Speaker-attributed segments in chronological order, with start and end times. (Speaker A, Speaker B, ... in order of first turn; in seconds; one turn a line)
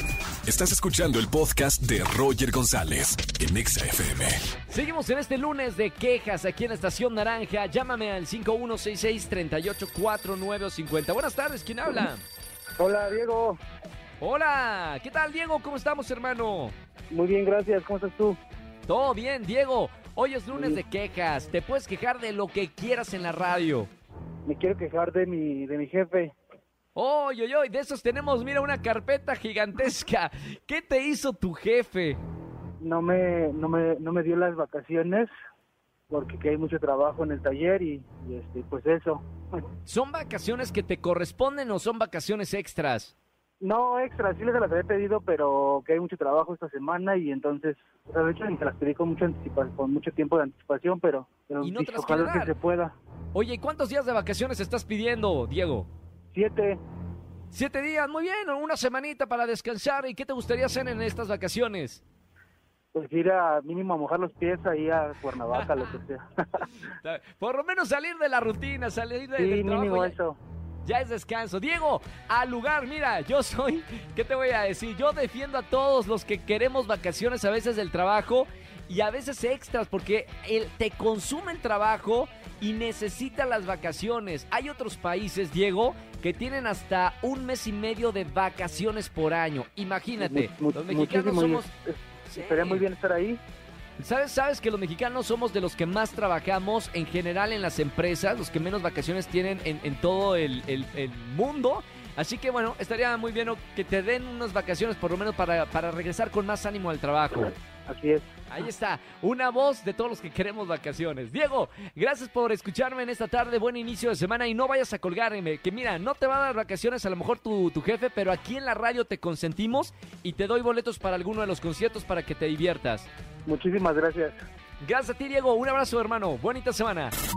Speaker A: 0.4-4.5
Speaker B: 4.7-12.2
Speaker C: 12.8-13.6
Speaker B: 14.2-16.8
Speaker C: 17.1-18.4
Speaker B: 18.9-23.9
Speaker C: 20.5-20.8
Speaker C: 24.5-26.4
Speaker B: 26.9-32.2
Speaker C: 32.8-35.3
Speaker C: 36.1-39.6
Speaker B: 39.9-43.1
Speaker C: 43.6-53.0
Speaker B: 51.6-52.5
Speaker B: 53.3-55.9
Speaker C: 56.3-56.8
Speaker B: 57.5-62.0
Speaker C: 62.9-66.6
Speaker B: 65.5-65.8
Speaker B: 67.0-70.1
Speaker C: 69.4-70.4
Speaker B: 70.8-91.7
Speaker C: 90.2-93.4
Speaker B: 92.3-92.8
Speaker B: 94.0-107.6
Speaker C: 107.9-108.3
Speaker B: 108.5-123.1
Speaker C: 123.5-124.4
Speaker B: 124.8-127.1